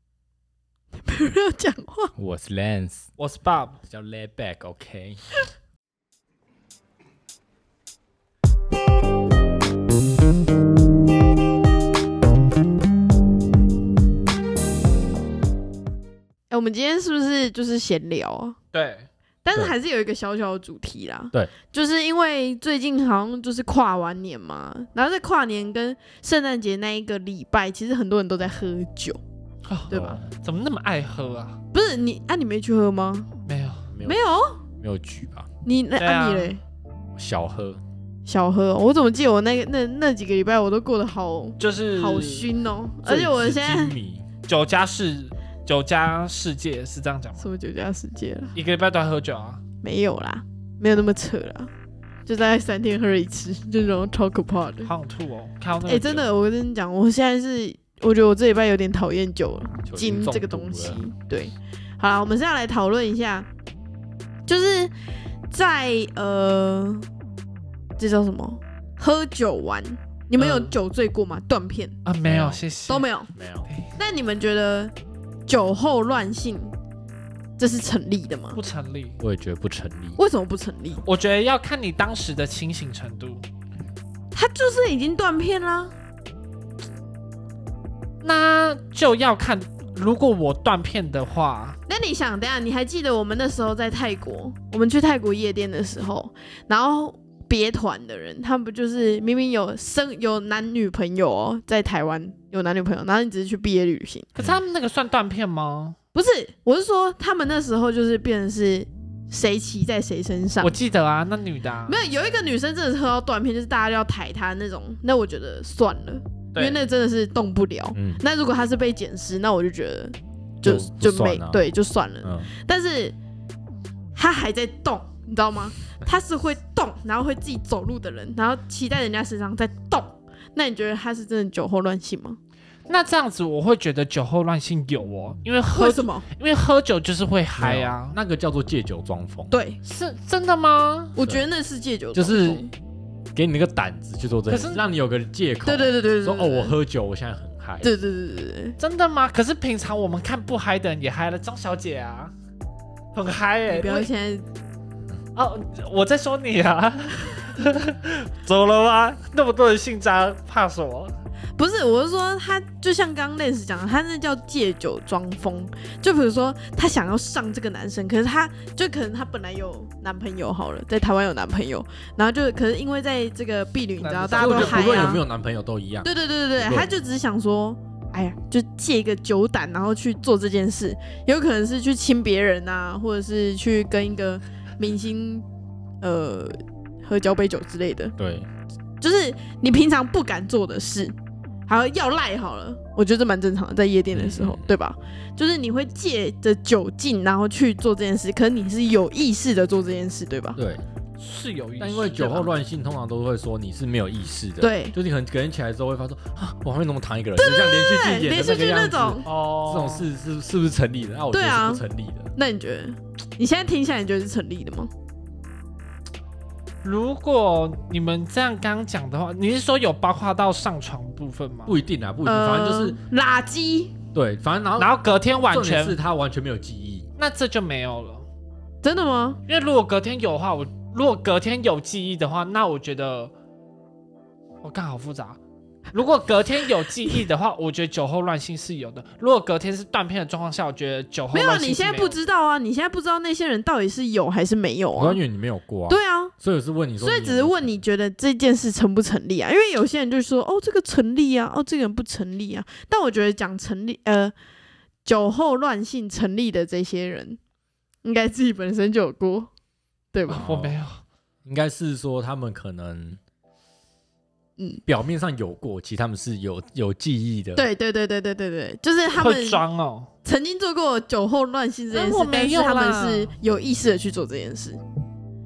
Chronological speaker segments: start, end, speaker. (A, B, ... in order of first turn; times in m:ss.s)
0:01.0-0:02.1 A
0:02.2-0:03.1 B
0:03.2-0:03.8 C
0:03.8-0:05.2 B
0:16.5-0:18.6 A
0:18.7-0:19.1 C
0:19.4-0:29.2 A
0:29.7-0:31.6 C
0:29.9-0:30.2 A
0:29.9-0:30.3 B
0:31.7-0:33.3 A
0:33.4-0:33.8 C
0:33.9-0:34.2 B
0:34.0-0:34.6 A
0:34.8-0:35.5 B
0:35.6-0:36.6 A
0:36.0-0:36.6 C
0:37.2-0:37.8 B
0:38.2-0:44.0 A
0:41.6-0:42.5 C
0:43.0-0:44.3 B
0:44.4-0:47.4 C
0:47.4-0:48.5 A
0:48.6-0:49.6 C
0:49.8-0:51.7 A
0:52.2-0:54.9 A
0:54.8-0:56.2 C
0:55.8-1:03.5 A
0:59.8-1:01.0 B
1:04.5-1:04.9 A
1:05.5-1:07.1 A
1:08.0-1:11.9 A
1:10.4-1:10.7 C
1:12.0-1:13.1 C
1:12.2-1:12.6 B
1:12.9-1:13.3 A
1:13.3-1:13.7 B
1:13.7-1:14.0 C
1:14.0-1:14.9 A
1:15.5-1:16.7 A
1:17.6-1:18.6 A
1:18.6-1:19.2 C
1:19.2-1:20.2 B
1:20.2-1:21.0 A
1:21.0-1:23.4 C
1:24.3-1:25.9 A
1:28.2-1:31.8 C
1:31.9-1:44.3 A
1:44.4-1:46.0 C
1:46.1-1:50.7 A
1:50.6-1:52.0 C
1:51.9-2:03.2 A
1:56.5-1:56.8 C
1:57.9-1:58.2 B
2:00.6-2:01.6 B
2:02.2-2:02.5 B
2:04.2-2:12.4 A
2:12.9-2:18.2 C
2:15.7-2:16.2 A
2:17.6-2:19.5 B
2:19.5-2:19.8 A
2:19.8-2:21.2 C
2:21.2-2:22.7 A
2:21.2-2:21.5 B
2:22.1-2:22.6 B
2:23.3-2:27.9 B
2:24.5-2:24.8 C
2:25.6-2:26.8 A
2:27.8-2:28.8 A
2:28.8-2:32.3 C
2:33.1-2:34.1 C
2:33.7-2:34.4 A
2:35.4-2:41.1 C
2:41.6-2:55.2 A
2:54.0-2:55.2 C
2:54.3-2:56.1 B
2:56.0-3:05.5 A
2:56.6-2:56.9 B
3:06.0-3:08.1 A
3:08.2-3:08.5 B
3:09.0-3:11.2 A
3:11.7-3:20.6 A
3:14.1-3:14.7 B
3:20.6-3:20.8 B
3:21.2-3:22.5 C
3:21.8-3:32.3 B
3:24.6-3:24.9 A
3:27.4-3:29.2 A
3:29.2-3:30.1 C
3:31.3-3:31.8 A
3:32.4-3:34.9 A
3:36.8-3:41.8 C
3:41.7-3:43.0 B
3:42.2-3:43.9 A
3:44.1-3:45.0 B
3:44.8-3:46.0 C
3:45.5-3:47.1 B
3:47.2-3:48.2 C
3:48.8-3:49.4 A
3:49.5-3:53.3 C
3:54.6-3:55.4 C
3:55.9-4:02.2 C
4:01.3-4:05.2 A
4:05.0-4:07.7 B
4:05.9-4:06.3 A
4:07.0-4:14.3 A
4:15.0-4:17.4 A
4:18.0-4:19.5 A
4:20.1-4:20.4 A
4:20.3-4:21.0 C
4:20.4-4:20.8 B
4:21.4-4:23.2 B
4:24.9-4:27.6 B
4:27.6-4:29.6 A
4:29.2-4:30.1 C
4:30.2-4:34.8 A
4:31.9-4:33.3 C